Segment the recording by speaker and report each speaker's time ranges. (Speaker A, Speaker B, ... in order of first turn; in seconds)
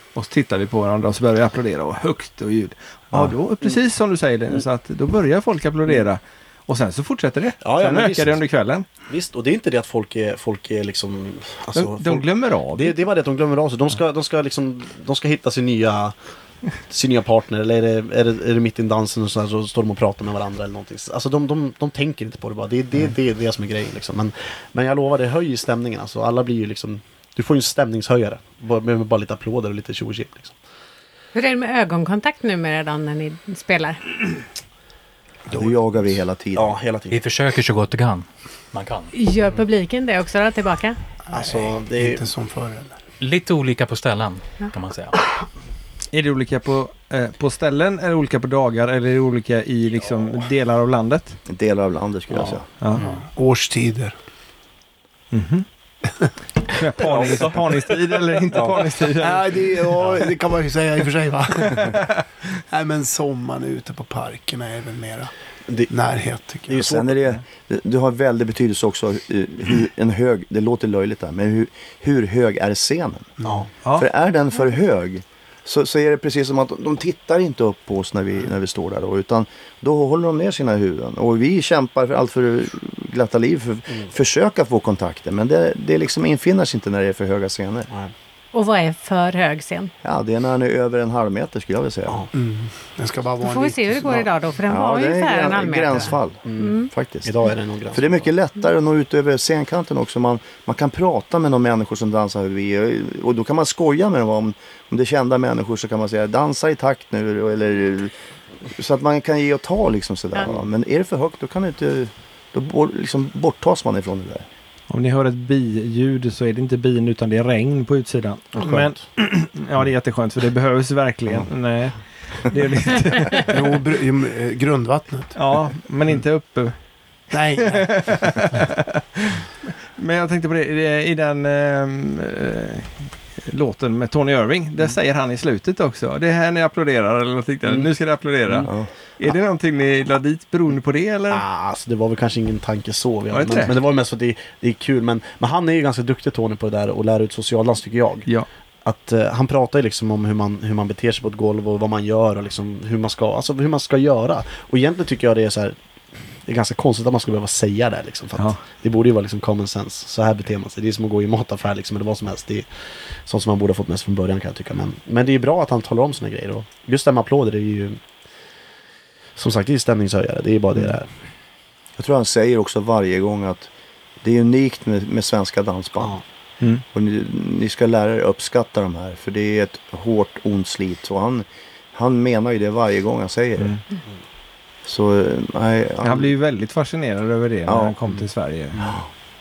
Speaker A: 0.1-8.9, 11.7-13.0, 46.1-51.4, 55.3-55.6, 56.7-59.5, 61.7-62.1, 114.9-123.7, 125.3-126.8, 127.6-129.4, 129.9-141.4, 143.3-143.7, 158.4-158.6, 186.0-188.8
Speaker B: 7.6-8.4, 9.1-16.1, 16.8-30.5, 36.5-37.2, 41.3-42.2, 57.0-57.6, 58.5-58.8, 66.7-67.1, 96.5-98.3, 118.6-119.0, 141.3-148.3, 148.8-155.8, 156.4-162.7, 163.2-168.0, 169.3-171.1, 188.8-189.0
Speaker C: 31.3-34.1, 39.1-41.0, 88.5-89.9, 93.4-96.9
Speaker D: 35.5-36.8, 51.5-52.6, 66.8-73.3, 73.9-87.9, 90.0-92.2, 94.7-97.3, 97.9-108.1, 108.7-114.5, 172.0-173.7, 174.2-176.2, 176.9-183.8, 184.8-186.3, 187.7-188.0
Speaker E: 37.1-39.1, 43.2-45.2, 52.9-53.2
Speaker F: 41.3-43.0, 53.0-54.1, 59.2-62.0, 62.7-65.3, 65.9-66.8, 73.4-73.7, 92.3-94.3, 123.5-125.3, 127.3-128.1